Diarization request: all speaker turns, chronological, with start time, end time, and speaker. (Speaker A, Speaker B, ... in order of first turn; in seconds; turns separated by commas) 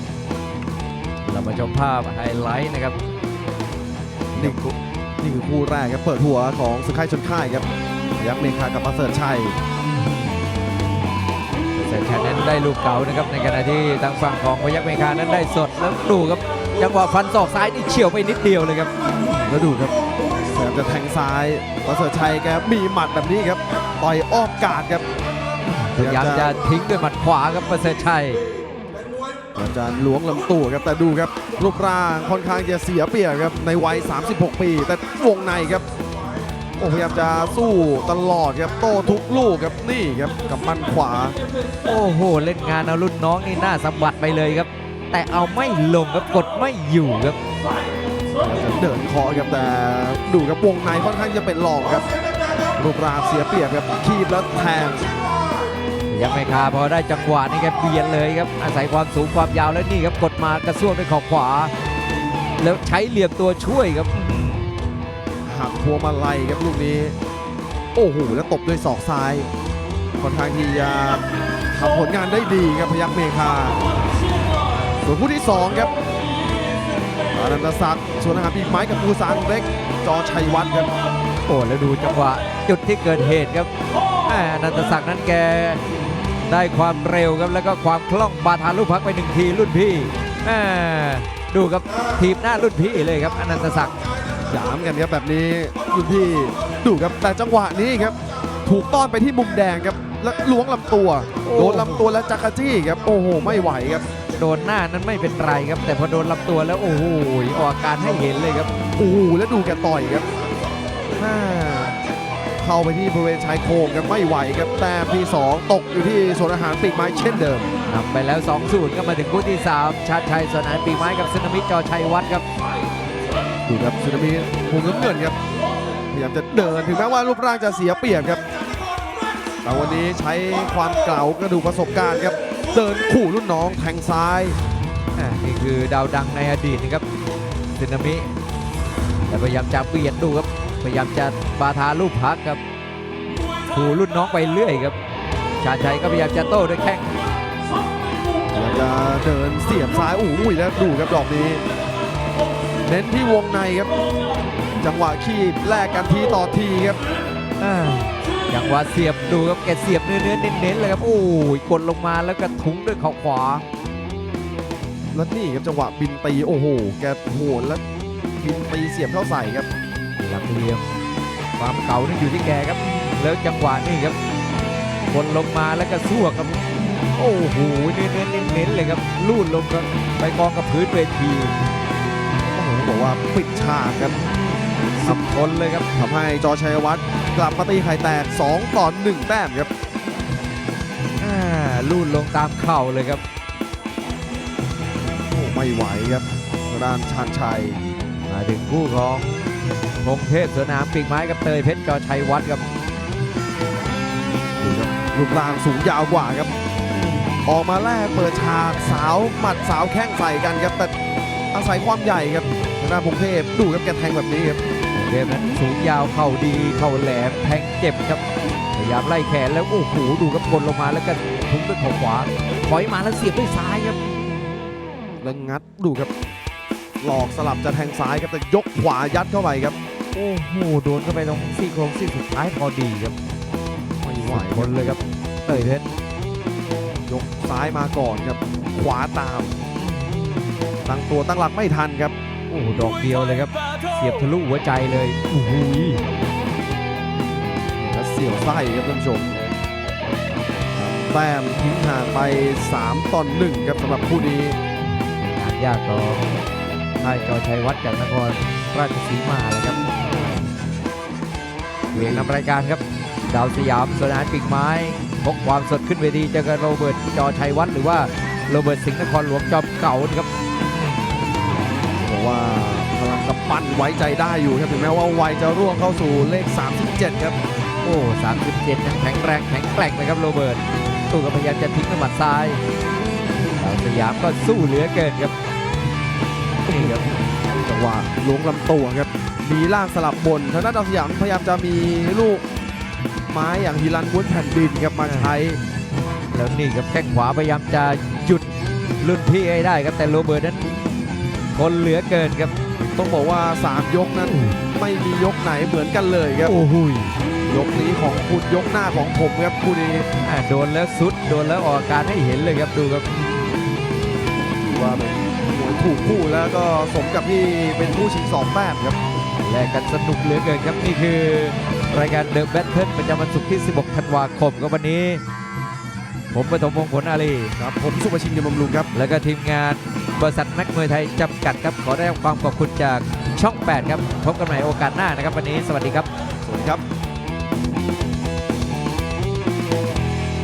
Speaker A: 1.2-3.0, Speaker A: 4.3-4.7, Speaker B: 5.2-9.6, Speaker A: 9.9-10.4, Speaker A: 11.7-18.9, Speaker B: 19.4-19.9, Speaker B: 20.5-25.1, Speaker A: 25.6-28.4, Speaker B: 26.0-26.5, Speaker B: 29.6-35.9, Speaker B: 36.8-41.4, Speaker A: 41.8-47.4, Speaker B: 48.4-52.1, Speaker B: 52.8-55.1, Speaker A: 56.1-61.7, Speaker A: 62.6-64.7, Speaker B: 65.4-67.1, Speaker B: 67.9-69.5, Speaker B: 70.2-73.8, Speaker B: 75.0-75.9, Speaker B: 77.3-80.9, Speaker A: 81.5-83.7, Speaker A: 84.2-85.8, Speaker A: 86.4-94.0, Speaker B: 94.5-104.1, Speaker A: 101.4-102.0, Speaker A: 104.3-108.7, Speaker B: 109.0-110.3, Speaker B: 111.2-112.0, Speaker B: 112.6-117.7, Speaker A: 117.9-122.4, Speaker B: 123.7-125.4, Speaker B: 126.1-128.4, Speaker B: 129.6-134.6, Speaker A: 135.1-137.1, Speaker A: 137.8-138.3, Speaker A: 139.3-142.6, Speaker A: 143.7-145.0, Speaker A: 145.6-147.2, Speaker B: 148.5-151.6, Speaker B: 152.9-154.0, Speaker B: 154.8-157.0, Speaker A: 157.6-163.6, Speaker B: 165.1-167.8, Speaker B: 168.4-169.7, Speaker A: 170.2-170.9, Speaker A: 171.6-174.2, Speaker A: 175.1-181.5, Speaker B: 182.4-184.2, Speaker A: 185.0-185.9, Speaker B: 185.9-189.7, Speaker A: 191.2-193.2, Speaker B: 195.3-197.8, Speaker A: 198.3-202.6, Speaker B: 204.6-206.5, Speaker A: 206.9-207.4, Speaker B: 207.4-210.9, Speaker B: 211.5-214.6, Speaker A: 214.9-218.2, Speaker A: 218.7-224.7, Speaker B: 225.2-226.1, Speaker B: 227.0-229.8, Speaker A: 230.1-233.2, Speaker B: 234.0-234.7, Speaker A: 234.3-235.9, Speaker B: 237.0-239.6, Speaker A: 239.7-240.6, Speaker B: 240.8-242.1, Speaker A: 242.5-246.0, Speaker B: 247.2-249.3, Speaker B: 250.7-254.6, Speaker A: 255.0-256.4, Speaker A: 257.0-259.9, Speaker B: 261.9-262.3, Speaker A: 261.9-271.2, Speaker B: 272.0-277.4, Speaker A: 277.8-282.6, Speaker A: 283.6-285.4, Speaker B: 286.6-292.4, Speaker A: 286.7-287.0, Speaker B: 293.3-295.6, Speaker A: 295.1-295.3, Speaker A: 296.3-300.9, Speaker A: 301.5-302.5, Speaker B: 302.8-306.6, Speaker A: 304.2-304.6, Speaker A: 306.4-307.1, Speaker B: 307.4-310.1, Speaker A: 310.2-313.6, Speaker B: 314.5-319.0, Speaker A: 319.4-325.2, Speaker A: 326.3-327.5, Speaker B: 327.6-328.9, Speaker A: 328.9-336.1, Speaker B: 336.4-336.8